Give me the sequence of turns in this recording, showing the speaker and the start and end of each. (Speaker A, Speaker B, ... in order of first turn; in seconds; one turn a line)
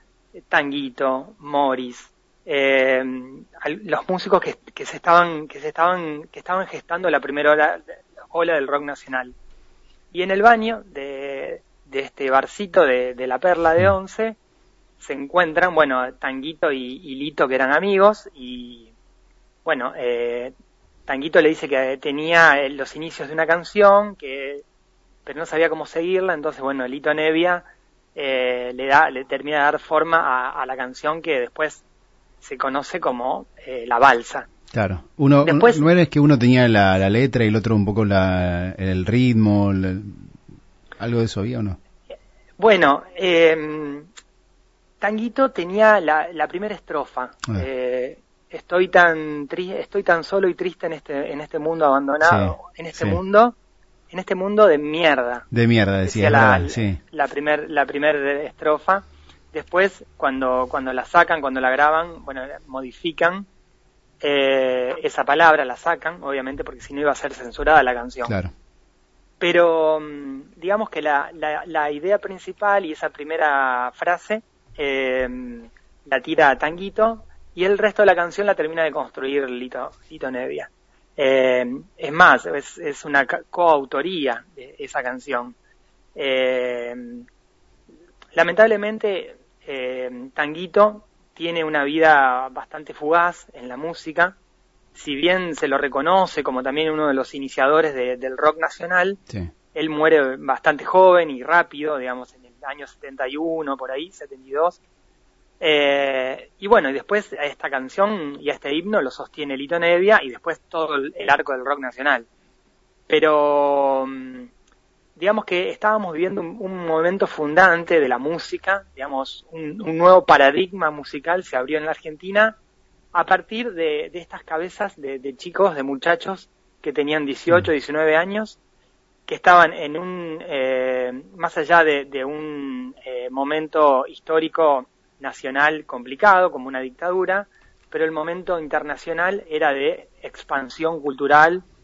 Speaker A: 0.5-9.3
Speaker A: 10.1-14.4
Speaker A: 15.0-18.9
Speaker A: 19.6-20.5
Speaker A: 21.1-24.6
Speaker A: 25.3-31.8
Speaker A: 32.4-34.5
Speaker B: 34.7-40.3
Speaker A: 35.5-35.8
Speaker B: 41.0-41.8
Speaker A: 42.6-44.1
Speaker A: 45.0-53.6
Speaker B: 52.2-53.2
Speaker A: 54.1-55.5
Speaker B: 55.5-57.0
Speaker A: 56.0-63.5
Speaker A: 64.2-68.3
Speaker B: 68.2-68.5
Speaker A: 69.4-85.6
Speaker A: 86.2-87.3
Speaker A: 88.3-94.4
Speaker A: 95.0-99.2
Speaker A: 99.7-104.8
Speaker A: 105.6-112.3
Speaker A: 113.1-114.5
Speaker A: 115.2-122.6
Speaker A: 123.1-128.6
Speaker A: 129.3-141.7